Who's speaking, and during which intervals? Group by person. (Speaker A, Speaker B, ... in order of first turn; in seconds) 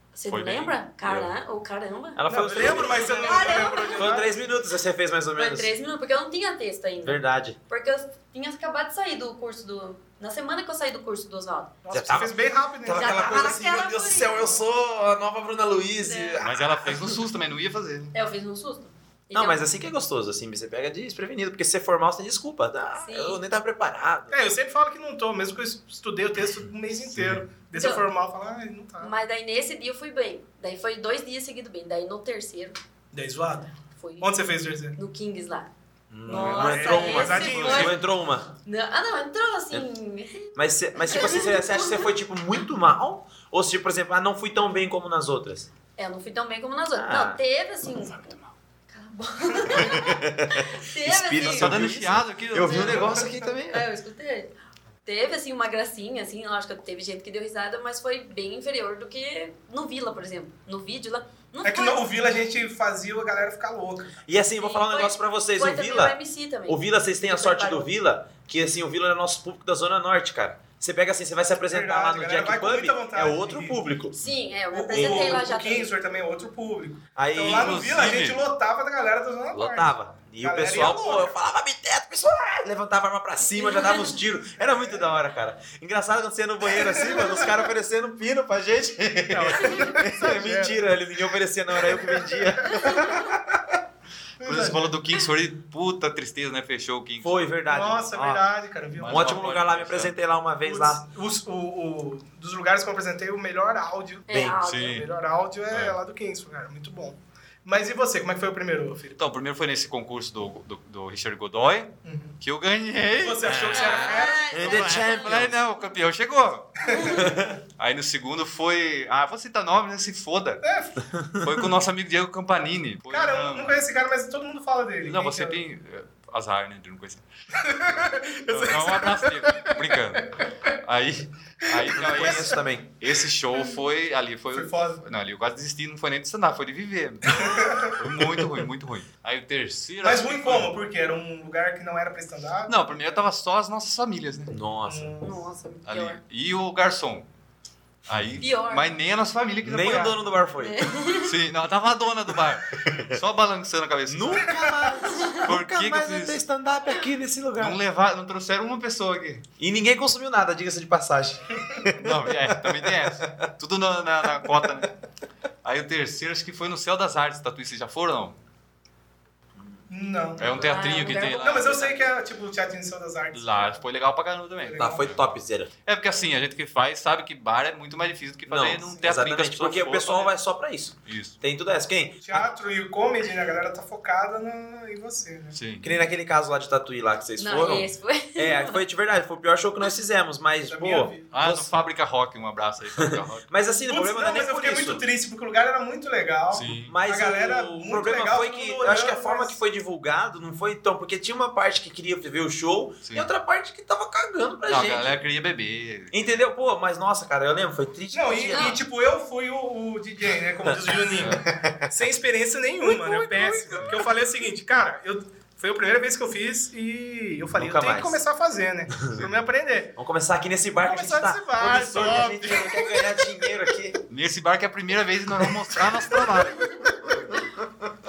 Speaker A: 0.1-4.3, 5.3-11.7, 12.9-14.6, 16.0-16.4, 18.1-19.7, 23.0-23.4, 27.7-28.1, 29.0-32.8, 34.0-34.3, 34.9-35.7, 36.2-38.0, 38.6-42.1, 46.0-48.4, 48.9-51.8, 53.2-54.5, 55.1-62.1, 64.6-67.9, 74.1-75.9, 83.6-84.2, 92.8-93.3, 104.3-105.0, 113.7-115.5, 116.9-117.2, 145.2-146.2, 148.4-148.9, 150.6-151.3, 155.1-155.4, 170.6-171.5, 187.4-188.8, 208.5-208.8
Speaker B: 0.3-1.3, 16.4-18.1, 27.1-27.4, 51.4-53.2, 77.4-78.4, 94.4-97.5, 99.0-100.2, 104.7-105.0, 105.7-106.0, 109.2-117.2, 117.8-120.6, 121.4-123.8, 125.0-127.2, 128.5-140.7, 142.7-144.6, 145.9-147.3, 148.1-150.2, 151.2-154.6, 155.4-156.4, 157.6-159.4, 162.0-164.9, 165.6-168.4, 170.4-172.1, 173.3-175.3, 175.9-180.3, 181.1-181.4, 185.5-185.9, 191.3-193.5, 196.5-196.9, 204.7-206.2, 211.2-211.4, 213.8-214.0, 224.1-226.9
Speaker C: 2.2-5.7, 7.0-7.6, 11.9-17.2, 19.3-24.4, 36.1-38.5, 40.5-45.7, 47.0-47.4, 49.6-53.8, 64.3-66.2, 66.7-74.2, 74.9-75.4, 77.2-77.9, 79.5-93.5, 97.2-98.4, 99.1-101.0, 104.3-104.6, 114.5-115.6, 117.2-117.6, 121.0-121.7, 132.0-132.9, 144.5-145.2, 149.6-150.9, 152.8-153.2, 154.1-157.8, 159.6-162.8, 174.8-175.7, 178.5-182.2, 185.8-191.7, 193.0-195.1, 196.8-205.2, 206.1-208.8, 210.6-212.0, 212.8-214.1, 217.5-218.2, 220.0-224.0
Speaker D: 2.3-4.3, 11.8-13.9, 24.3-29.1, 33.1-33.7, 34.2-35.0, 36.4-38.0, 52.8-53.3, 61.6-64.2, 71.6-73.8, 74.7-81.3, 84.6-85.1, 86.8-87.5, 89.3-90.8, 91.8-93.3, 94.4-95.0, 97.7-99.5, 100.7-104.3, 104.8-109.2, 112.0-112.3, 113.2-114.5, 116.9-117.3, 120.6-121.0, 123.1-125.6, 127.6-130.5, 131.8-132.6, 134.5-135.0, 137.3-138.0, 140.0-142.7, 144.9-145.4, 169.9-173.8, 174.6-175.1, 182.2-185.6, 190.7-191.3, 193.9-199.6, 208.1-219.9, 220.8-223.4, 225.8-227.3